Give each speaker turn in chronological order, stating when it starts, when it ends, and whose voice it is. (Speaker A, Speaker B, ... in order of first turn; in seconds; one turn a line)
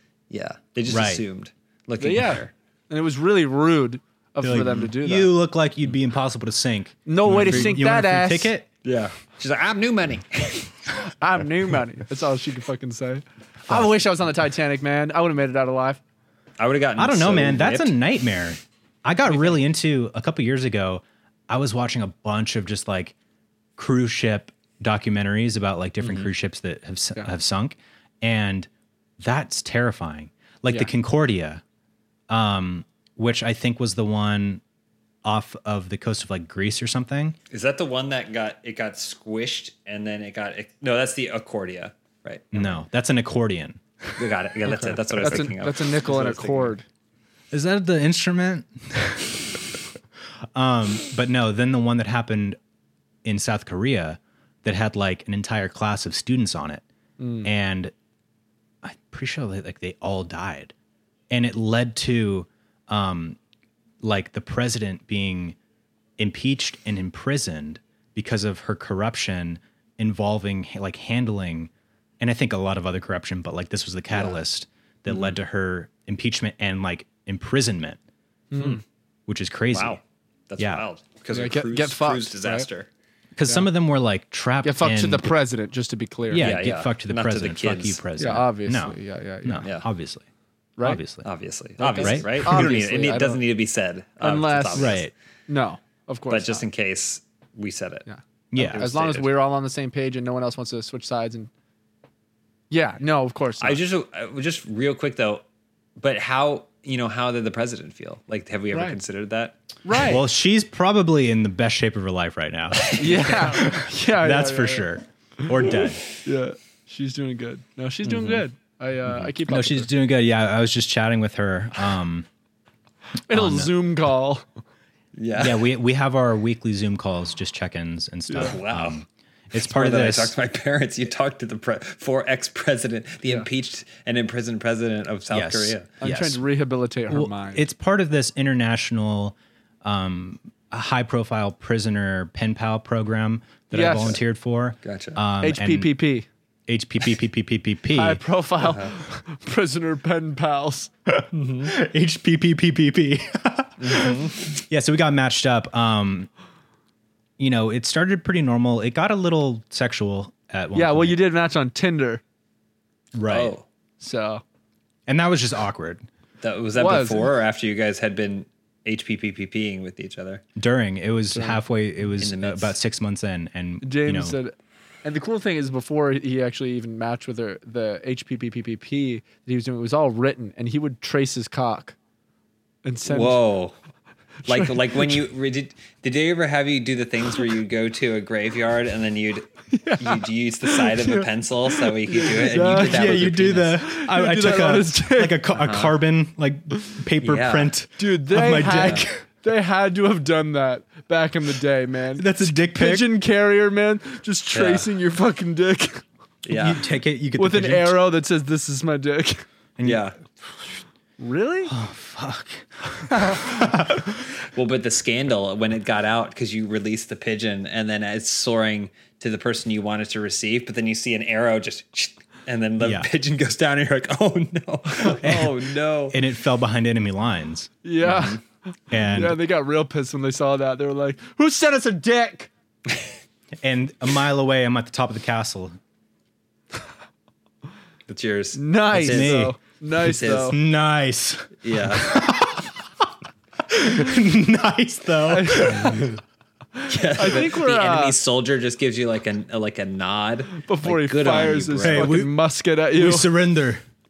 Speaker A: 0.3-2.5
Speaker B: 0.9-1.2
Speaker C: 2.0-5.3
Speaker B: 4.4-8.7
Speaker C: 7.1-8.5
Speaker A: 7.5-7.7
Speaker A: 8.8-10.7
Speaker C: 11.1-16.0
Speaker B: 13.7-14.0
Speaker A: 16.6-17.9
Speaker B: 17.0-23.1
Speaker B: 23.8-31.6
Speaker A: 26.0-26.3
Speaker B: 32.3-34.6
Speaker B: 35.2-37.4
Speaker A: 37.5-42.8
Speaker B: 42.5-44.2
Speaker A: 44.2-46.8
Speaker B: 44.7-44.9
Speaker C: 45.2-46.8
Speaker B: 47.5-49.4
Speaker B: 50.5-52.6
Speaker B: 53.2-56.8
Speaker C: 57.2-57.5
Speaker B: 57.4-57.9
Speaker B: 58.8-60.7
Speaker B: 61.3-63.4
Speaker B: 64.0-65.5
Speaker B: 66.2-78.0
Speaker C: 78.5-78.8
Speaker B: 79.3-80.0
Speaker A: 79.7-82.9
Speaker B: 80.6-80.8
Speaker C: 81.3-82.7
Speaker B: 83.4-85.3
Speaker C: 84.6-86.5
Speaker B: 86.3-90.2
Speaker A: 86.4-88.0
Speaker C: 88.2-89.7
Speaker B: 90.8-91.2
Speaker A: 91.2-95.1
Speaker C: 91.8-93.4
Speaker B: 91.9-92.8
Speaker C: 94.2-96.6
Speaker B: 94.8-95.1
Speaker A: 96.3-98.0
Speaker C: 98.0-101.5
Speaker B: 98.5-98.9
Speaker A: 98.6-99.3
Speaker C: 102.7-103.8
Speaker A: 103.6-105.4
Speaker A: 106.0-109.6
Speaker C: 108.7-109.0
Speaker C: 109.8-110.2
Speaker B: 110.0-116.0
Speaker C: 112.9-114.9
Speaker C: 115.4-119.9
Speaker A: 118.0-118.4
Speaker B: 119.1-122.3
Speaker C: 123.3-124.5
Speaker B: 123.3-123.7
Speaker A: 125.2-125.7
Speaker B: 125.4-130.3
Speaker C: 128.3-128.5
Speaker A: 128.4-129.0
Speaker A: 129.6-135.9
Speaker B: 135.3-136.4
Speaker C: 136.0-137.6
Speaker B: 137.1-146.0
Speaker C: 143.7-144.2
Speaker A: 144.8-145.2
Speaker C: 145.4-146.3
Speaker B: 146.7-148.2
Speaker C: 147.9-150.9
Speaker A: 148.6-148.9
Speaker B: 151.1-156.3
Speaker A: 151.3-151.7
Speaker A: 153.8-154.4
Speaker B: 157.4-161.2
Speaker C: 160.7-162.2
Speaker B: 163.1-163.5
Speaker A: 163.3-163.6
Speaker C: 164.0-164.4
Speaker B: 165.1-166.1
Speaker A: 166.4-170.4
Speaker C: 166.8-167.3
Speaker B: 170.6-174.4
Speaker C: 171.3-171.6
Speaker A: 172.2-172.8
Speaker C: 173.8-181.9
Speaker C: 182.8-183.4
Speaker A: 183.1-183.7
Speaker C: 184.5-185.2
Speaker A: 184.5-189.5
Speaker C: 189.7-195.4
Speaker A: 190.0-193.8
Speaker B: 192.6-199.2
Speaker A: 195.5-196.0
Speaker A: 197.2-197.7
Speaker C: 198.0-206.0
Speaker A: 198.6-199.1
Speaker B: 202.2-203.1
Speaker A: 204.5-204.9
Speaker A: 206.4-206.8
Speaker B: 206.5-208.0
Speaker C: 207.4-209.4
Speaker B: 209.8-210.1
Speaker A: 209.8-210.1
Speaker C: 211.2-211.7
Speaker B: 211.7-214.2
Speaker C: 213.1-213.4
Speaker A: 214.5-226.2
Speaker B: 222.8-223.1
Speaker B: 225.2-225.6
Speaker B: 226.1-227.7
Speaker C: 227.8-228.4
Speaker A: 228.0-228.4
Speaker B: 228.9-229.4
Speaker C: 228.9-232.5
Speaker B: 233.6-235.8
Speaker A: 238.1-240.6
Speaker C: 238.5-240.6
Speaker B: 238.9-239.6
Speaker B: 240.2-243.1
Speaker A: 241.6-242.2
Speaker B: 243.7-246.0
Speaker C: 245.3-246.2
Speaker C: 246.7-248.2
Speaker A: 246.9-252.1
Speaker C: 250.6-253.3
Speaker B: 251.8-253.8